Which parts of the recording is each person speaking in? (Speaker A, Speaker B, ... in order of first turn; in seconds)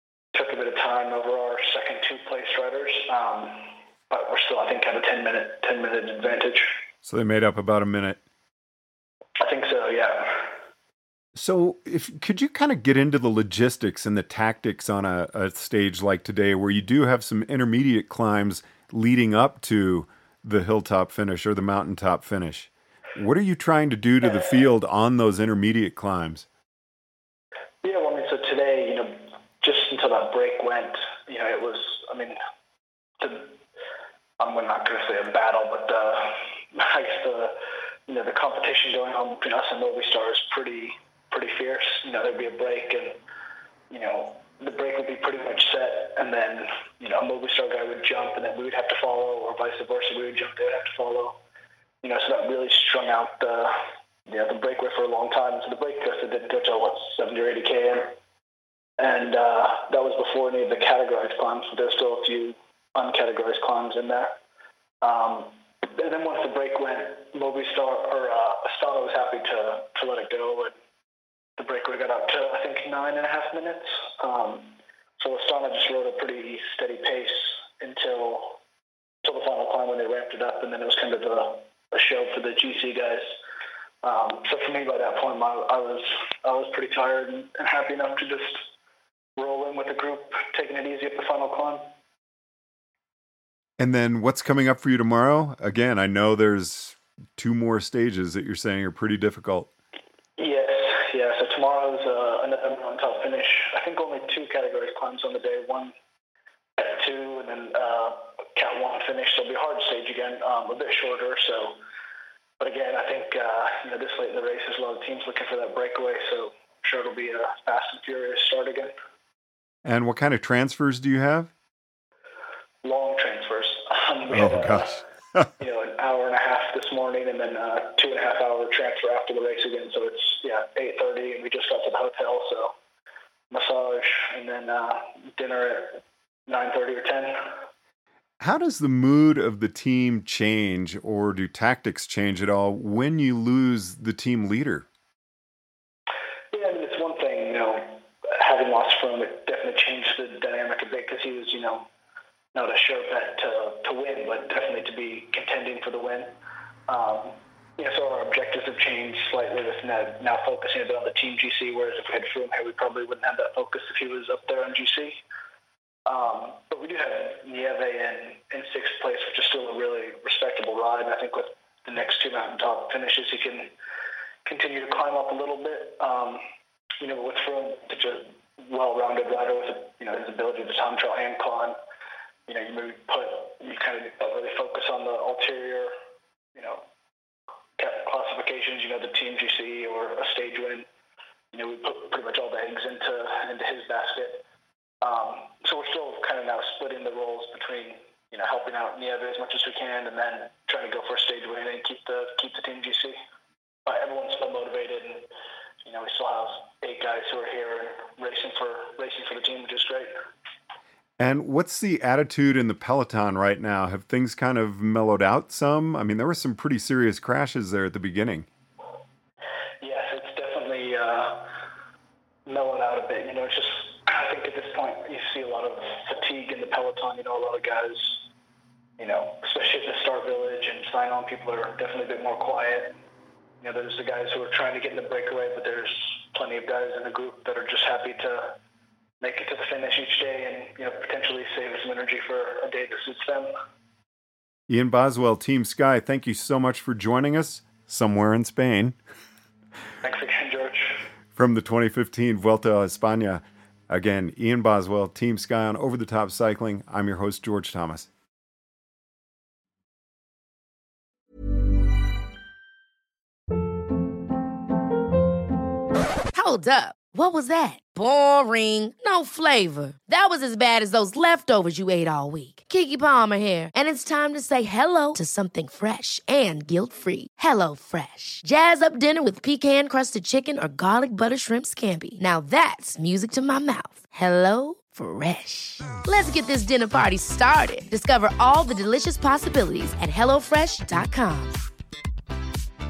Speaker A: 0.3-6.7, 9.4-10.5, 27.8-32.4, 33.2-33.6, 34.4-37.5, 38.1-43.1, 43.9-51.4, 52.0-53.8, 54.3-58.1, 59.0-64.3, 65.0-70.7, 71.6-78.6, 79.2-83.3, 84.0-88.7, 89.4-91.8, 100.4-105.9, 106.8-111.8, 112.6-118.9, 122.8-125.0, 125.6-132.7, 133.5-137.4, 146.5-151.9, 152.5-156.3, 156.9-165.2, 166.1-173.7, 174.4-176.4, 177.0-181.8, 182.5-185.9, 186.5-186.8, 187.8-190.8, 191.5-194.4, 195.0-203.2, 203.8-205.3, 205.8-210.1, 219.8-221.5, 222.4-228.2, 229.0-232.9, 233.6-238.5, 239.2-243.5, 250.0-251.0
Speaker B: 7.0-8.2, 11.3-26.4, 93.8-99.7, 119.8-121.5, 124.3-125.5, 138.4-144.9, 211.2-218.5, 244.7-249.0, 251.3-258.1
Speaker C: 266.3-291.6